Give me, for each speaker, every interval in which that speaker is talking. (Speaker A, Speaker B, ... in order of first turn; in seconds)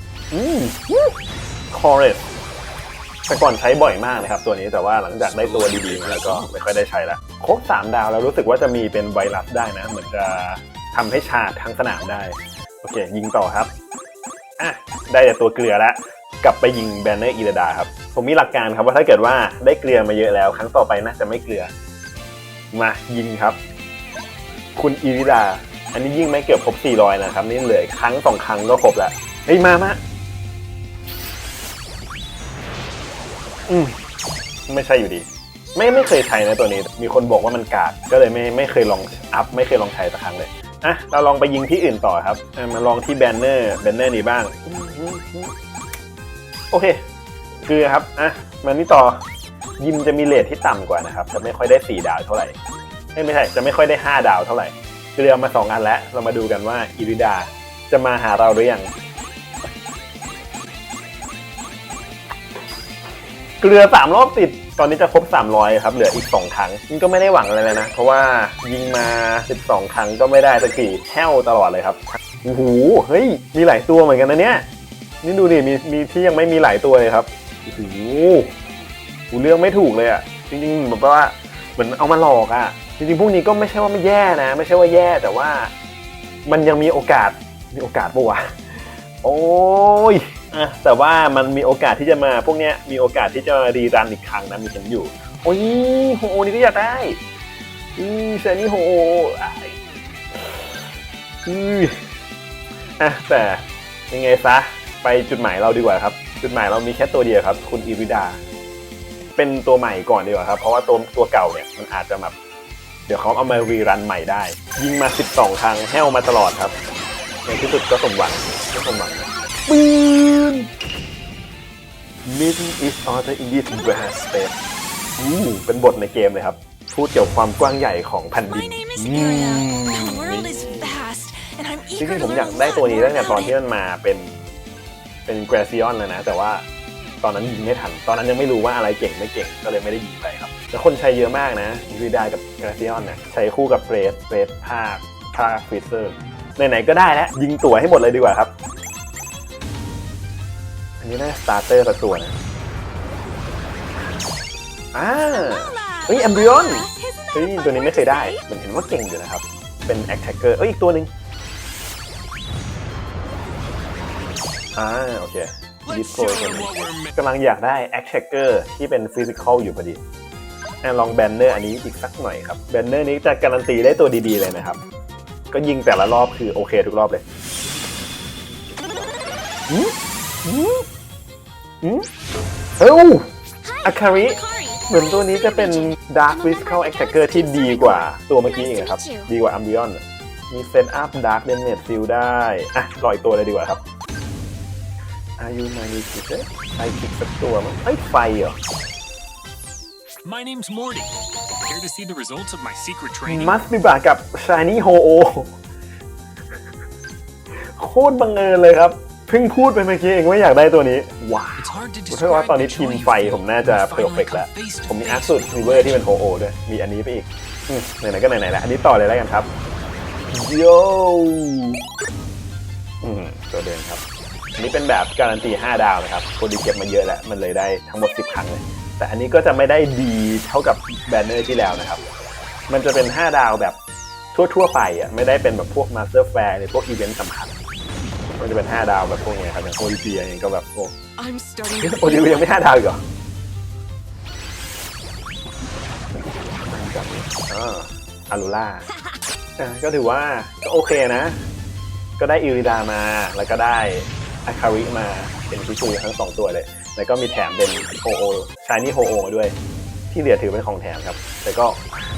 Speaker A: 0.3-1.1, 1.7-2.2, 3.3-13.7, 14.6-21.7, 22.7-23.6, 24.8-30.0, 33.7-34.0, 34.7-45.5, 46.7-47.0, 47.6-49.2, 49.8-52.5, 53.1-58.9, 63.6-74.7, 75.2-78.5, 79.3-85.7, 86.5-97.2, 98.0-99.8, 100.3-100.9, 101.5-102.0, 103.0-108.4, 109.4-112.3, 113.1-116.8, 117.5-120.7, 122.3-124.5, 125.2-131.0, 131.9-134.4, 135.3-136.7, 137.2-148.5, 151.0-152.3, 154.9-161.1, 164.8-170.0, 170.8-174.8, 175.5-177.2, 179.7-179.9, 180.4-180.8, 182.8-183.3, 183.8-193.8, 195.4-198.6, 203.3-205.6, 207.5-219.5, 220.3-221.8, 223.0-224.0, 224.6-232.0, 232.7-233.8, 234.3-237.5, 238.4-240.9, 241.8-243.0, 246.7-248.9, 249.6-251.4, 252.2-259.5, 260.1-261.8
Speaker B: 5.3-6.5, 165.8-167.2, 200.2-203.6, 211.6-216.0
Speaker C: 128.5-133.6, 155.3-158.4, 183.6-189.3, 241.2-242.5